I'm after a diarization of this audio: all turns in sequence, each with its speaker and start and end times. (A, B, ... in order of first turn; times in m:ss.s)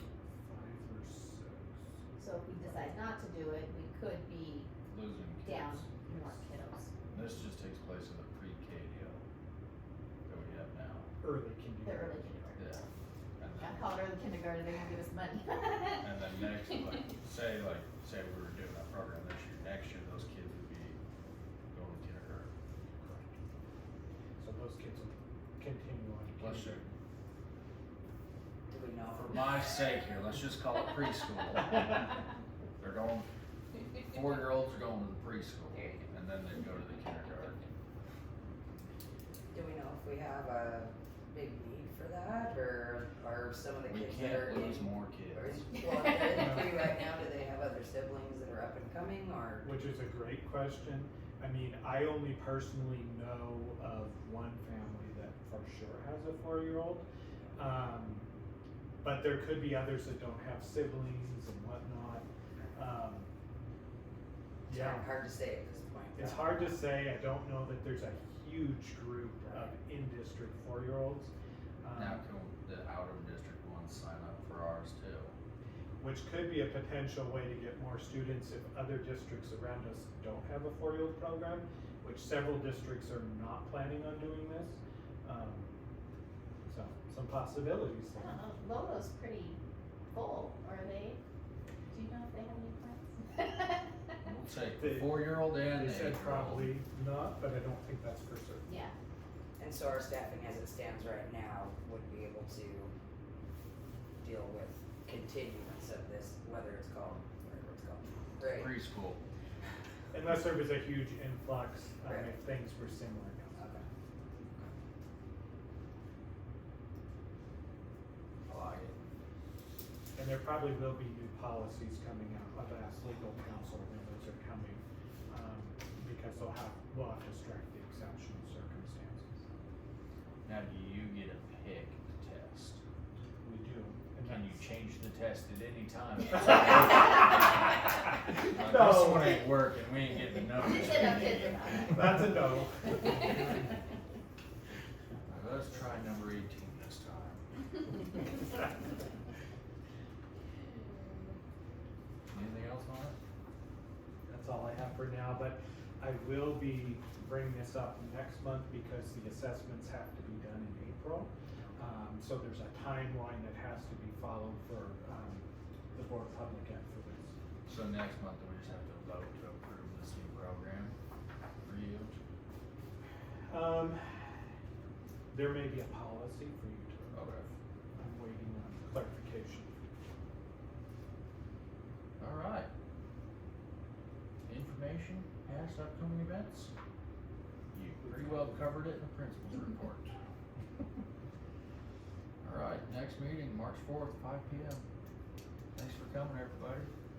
0:00.4-0:01.9 A
0:02.2-0:04.7 B
0:02.6-0:02.9 A
0:04.9-0:06.3 C
0:05.4-0:07.0 B
0:07.1-0:09.2 C
0:10.2-0:11.1 C
0:11.2-0:12.4 A
0:11.8-0:12.7 B
0:12.6-0:12.9 C
0:13.4-0:14.0 C
0:13.6-0:16.0 B
0:16.0-0:21.0 C
0:21.7-0:22.5 C
0:23.0-0:23.3 A
0:24.4-0:26.9 A
0:26.4-0:26.8 C
0:28.7-0:29.6 D
0:29.2-0:32.2 C
0:32.8-0:33.3 C
0:33.9-0:37.6 C
0:39.5-0:49.7 D
0:43.8-0:45.6 C
0:46.2-0:46.8 A
0:49.6-0:58.3 A
0:59.0-1:03.3 A
1:04.7-1:06.8 D
1:04.7-1:05.1 A
1:06.2-1:12.2 A
1:11.9-1:15.3 C
1:16.0-1:25.8 A
1:26.6-1:28.4 A
1:28.2-1:29.6 B
1:30.1-1:31.2 B
1:31.9-1:33.8 B
1:34.2-1:36.8 C
1:34.8-1:38.7 A
1:38.6-1:38.9 B
1:39.6-1:42.9 D
1:44.2-1:48.7 D
1:48.5-1:49.2 C
1:50.1-1:53.9 A
1:52.0-1:52.3 D
1:58.5-1:58.9 C
2:00.1-2:09.4 A
2:10.4-2:12.8 C
2:13.4-2:14.6 A
2:14.2-2:17.7 C
2:18.3-2:21.9 C
2:18.3-2:19.5 A
2:20.7-2:21.9 B
2:21.8-2:23.4 A
2:25.3-2:27.4 C
2:32.3-2:33.2 C
2:34.3-2:47.3 A
2:47.6-2:50.9 C
2:51.6-2:52.1 C
2:53.5-2:54.4 A
2:55.3-2:57.4 A
2:57.1-2:57.5 C
2:58.0-2:59.7 A
3:02.2-3:02.7 C
3:04.4-3:06.7 C
3:07.7-3:10.1 C
3:08.0-3:08.4 A
3:12.4-3:14.8 C
3:15.7-3:16.9 C